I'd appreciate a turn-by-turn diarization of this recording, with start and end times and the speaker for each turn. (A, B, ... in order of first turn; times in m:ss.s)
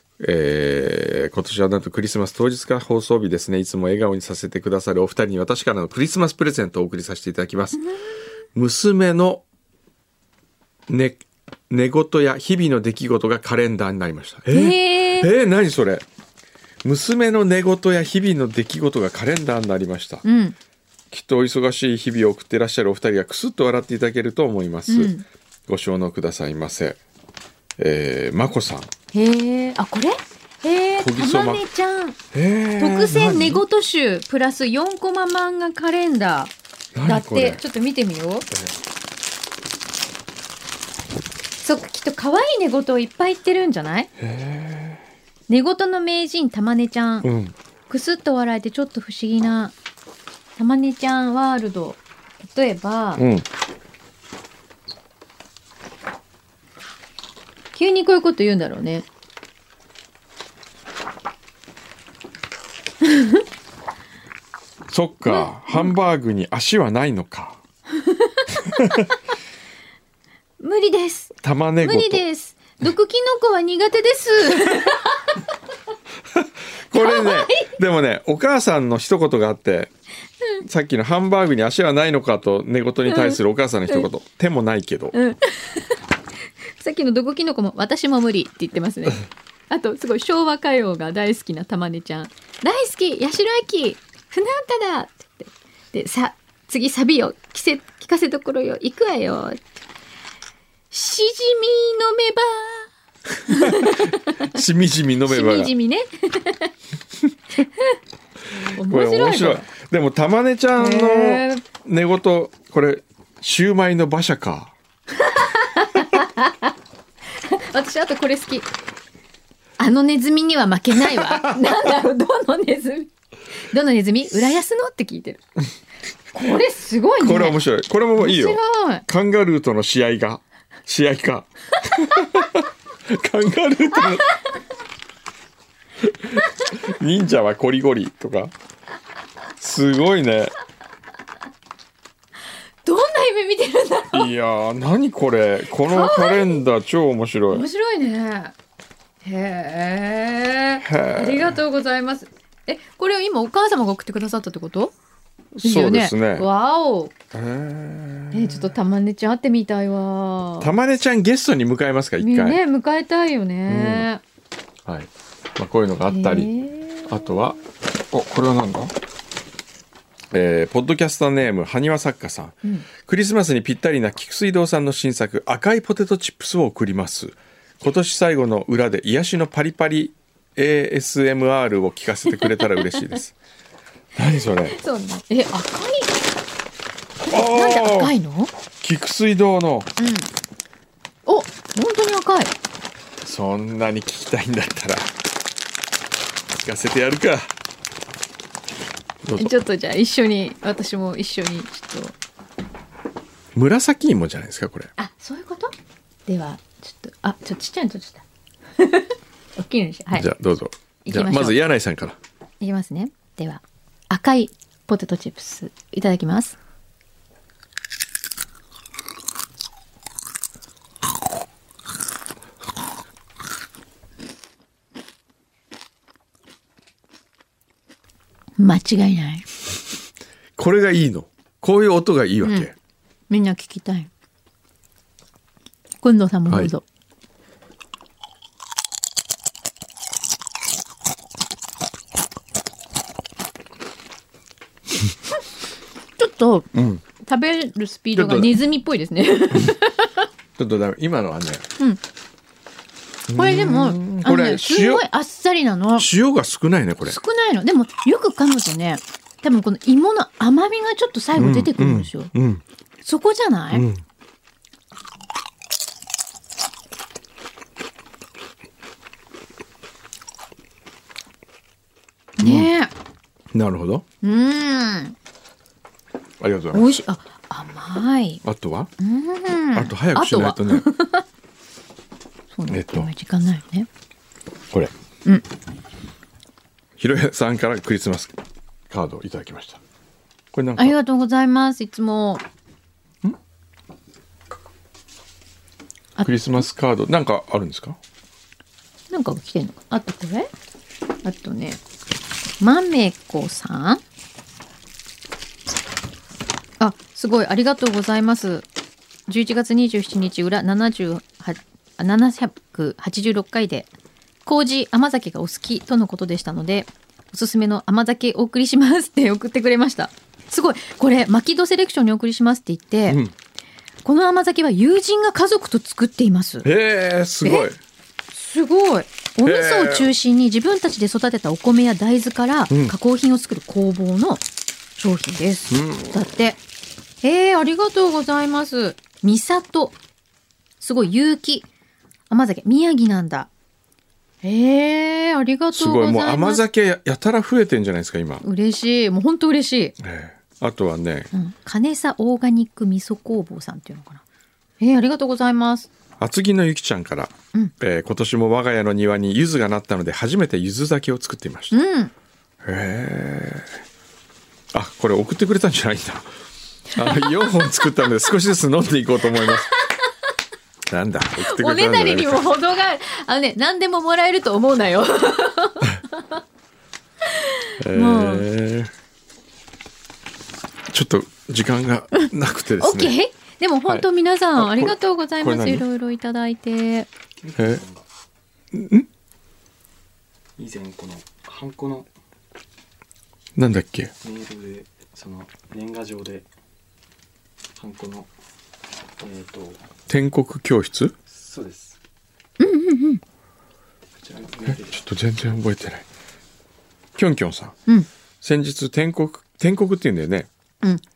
0:00.2-0:07.8 A
0:08.5-0:09.4 A
0:10.9-0:16.0 A
0:14.5-0:15.3 B
0:16.8-0:20.2 A
0:20.2-0:20.5 B
0:21.1-0:25.1 A
0:24.9-0:25.2 B
0:25.7-0:27.0 A
0:27.8-0:28.9 A
0:29.1-0:32.2 B
0:31.0-0:31.6 A
0:32.3-0:33.6 A
0:32.8-0:36.5 B
0:36.9-0:37.6 A
0:37.0-0:38.5 B
0:38.5-0:38.8 A
0:41.6-0:44.1 B
0:44.2-0:45.0 A
0:45.5-0:47.3 B
0:47.2-0:47.5 A
0:47.9-0:49.7 B
0:50.6-0:53.2 B
0:53.2-0:53.4 A
0:57.7-0:59.0 B
1:03.0-1:03.4 B
1:04.9-1:07.6 A
1:05.3-1:05.9 B
1:08.0-1:08.8 B
1:10.6-1:15.3 B
1:11.4-1:12.2 A
1:16.4-1:19.9 A
1:16.9-1:17.7 B
1:20.6-1:25.1 A
1:23.0-1:23.4 B
1:25.1-1:26.0 B
1:26.8-1:39.6 B
1:40.9-1:42.9 B
1:43.5-1:44.5 B
1:44.5-1:45.7 A
1:45.3-1:46.7 B
1:48.5-1:49.6 B
1:48.8-1:54.7 A
1:50.8-1:51.6 B
1:55.2-1:56.7 B
1:57.5-1:58.7 B
1:59.8-2:03.1 B
2:01.0-2:01.8 A
2:03.7-2:05.4 B
2:06.3-2:07.6 B
2:07.2-2:14.3 A
2:08.2-2:09.0 B
2:16.0-2:18.5 A
2:19.6-2:20.5 A
2:22.8-2:24.3 B
2:24.1-2:27.7 A
2:25.8-2:26.6 B
2:27.5-2:28.5 B
2:29.2-2:34.9 B
2:30.8-2:31.6 A
2:35.6-2:36.4 A
2:35.6-2:37.1 B
2:37.3-2:38.7 A
2:38.3-2:40.7 B
2:40.6-2:42.6 A
2:42.2-2:44.2 B
2:43.7-2:44.1 A
2:44.8-2:46.5 A
2:46.1-2:47.5 B
2:47.0-2:47.6 A
2:48.1-2:48.9 A
2:50.3-3:03.4 A
3:02.5-3:03.0 B
3:04.2-3:04.8 A
3:04.6-3:06.2 B
3:07.2-3:08.5 B
3:07.3-3:08.2 A
3:08.8-3:09.9 A
3:10.0-3:10.3 B
3:11.2-3:12.5 B
3:13.2-3:15.1 A
3:16.5-3:17.5 A
3:19.2-3:19.5 A
3:19.4-3:22.2 B
3:23.5-3:24.9 A
3:25.0-3:25.7 B
3:26.3-3:28.2 B
3:28.8-3:30.3 B
3:30.1-3:32.2 A
3:31.0-3:31.6 B
3:32.6-3:36.6 B
3:48.6-3:49.4 B
3:50.6-3:52.7 A
3:52.4-3:52.7 B
3:53.3-3:54.1 B
3:56.0-3:56.8 B
4:06.2-4:06.7 B
4:06.7-4:07.0 A
4:07.2-4:10.2 B
4:08.1-4:08.6 A
4:10.6-4:11.6 A
4:13.3-4:15.0 A
4:13.3-4:16.1 B
4:16.0-4:17.2 A
4:17.0-4:22.3 B
4:21.4-4:22.6 A
4:23.0-4:23.8 B
4:23.7-4:24.0 A
4:32.4-4:32.9 B
4:32.4-4:32.7 A
4:33.5-4:34.0 A
4:34.2-4:35.1 B
4:36.4-4:37.0 A
4:36.7-4:38.4 B
4:38.4-4:38.9 A
4:39.0-4:41.2 B
4:39.7-4:40.8 A
4:42.5-4:43.9 B
4:42.7-4:43.1 A
4:47.0-4:48.3 A
4:48.9-4:49.8 A
4:50.5-4:51.0 A
4:50.8-4:52.4 B
4:56.2-4:56.6 B
4:56.2-4:58.0 A
4:59.1-5:00.5 B
5:01.2-5:01.8 B
5:02.6-5:04.0 B
5:06.8-5:08.7 B
5:09.3-5:13.9 B
5:14.4-5:23.2 B
5:23.1-5:23.3 A
5:24.0-5:26.7 B
5:26.6-5:27.8 A
5:27.4-5:27.7 B
5:28.3-5:34.4 B
5:29.4-5:30.1 A
5:32.7-5:33.0 A
5:35.0-5:36.6 B
5:35.7-5:36.3 A
5:37.2-5:40.0 B
5:40.8-5:41.6 B
5:42.3-5:43.5 B
5:44.4-5:46.6 B
5:45.7-5:48.4 A
5:48.4-5:49.9 B
5:50.0-5:51.3 A
5:51.3-5:54.2 B
5:54.8-5:55.9 B
5:56.2-6:01.8 A
6:01.7-6:02.1 B
6:02.6-6:03.8 A
6:04.7-6:06.3 A
6:06.9-6:07.5 B
6:06.9-6:09.7 A
6:10.9-6:12.4 A
6:11.4-6:16.1 B
6:17.7-6:18.4 B
6:17.8-6:18.9 A
6:20.9-6:23.2 A
6:22.8-6:27.1 B
6:23.8-6:25.8 A
6:27.4-6:28.0 C
6:27.6-6:27.8 A
6:28.7-6:29.1 A
6:30.6-6:32.1 C
6:33.6-6:34.1 A
6:34.2-6:36.5 C
6:37.8-6:38.3 C
6:39.2-6:39.8 C
6:40.1-6:41.1 A
6:41.3-6:42.0 C
6:42.6-6:43.2 B
6:44.2-6:45.0 C
6:44.6-6:46.0 A
6:47.2-6:47.8 A
6:48.4-6:50.5 A